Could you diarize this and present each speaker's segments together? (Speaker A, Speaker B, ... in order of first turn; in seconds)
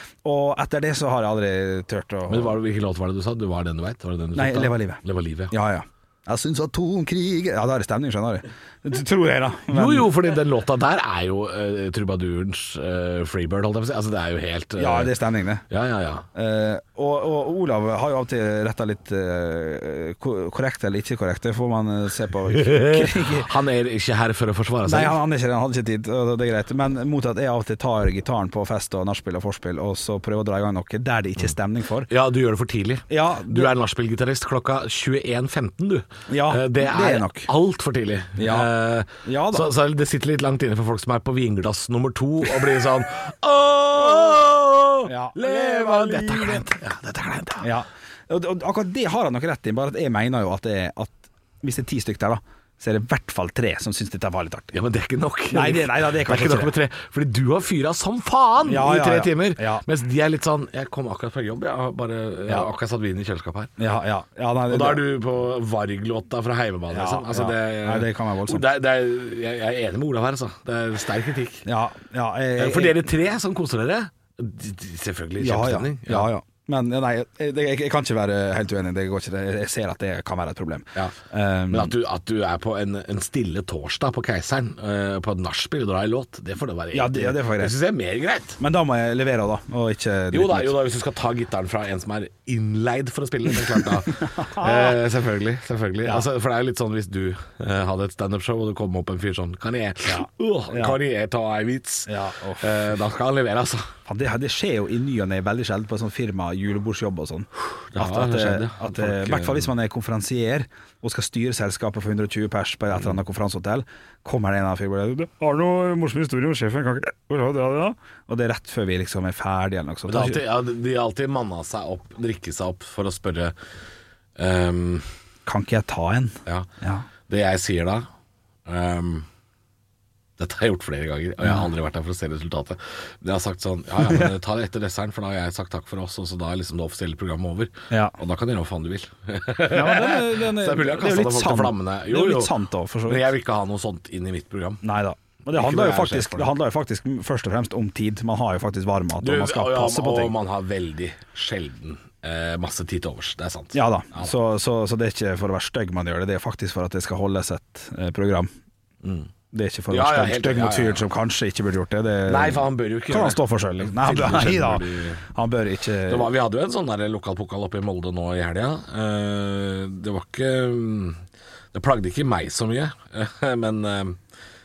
Speaker A: 0.2-2.6, 4.3-10.1, 14.8-15.7, 16.3-23.5, 24.8-32.1, 33.1-33.7, 36.3-37.5, 38.4-38.7, 39.2-39.7, 44.0-44.4, 45.0-46.6, 47.6-54.8, 55.5-56.7, 58.6-59.8, 63.8-65.0, 66.9-68.6, 71.6-72.9, 75.4-81.9, 86.9-87.7, 88.6-90.7, 94.2-95.0, 100.0-101.0, 102.1-102.9, 104.0-120.4, 125.5-127.0, 131.4-131.7, 134.0-134.3, 137.9-138.2, 139.7-143.3, 144.8-150.3, 153.7-158.5, 159.5-166.3
Speaker B: 2.3-5.5, 9.7-15.1, 15.7-16.2, 22.5-25.2, 32.1-47.6, 54.7-63.7, 64.7-71.6, 72.6-76.3, 81.7-88.6, 90.3-103.9, 107.9-109.7, 120.1-123.5, 124.4-125.0, 127.3-128.1, 128.7-129.2, 130.4-144.8, 145.5-146.5, 149.2-154.3, 159.0-159.3, 159.9-161.0, 162.2-165.2, 166.1-171.2, 171.7-174.2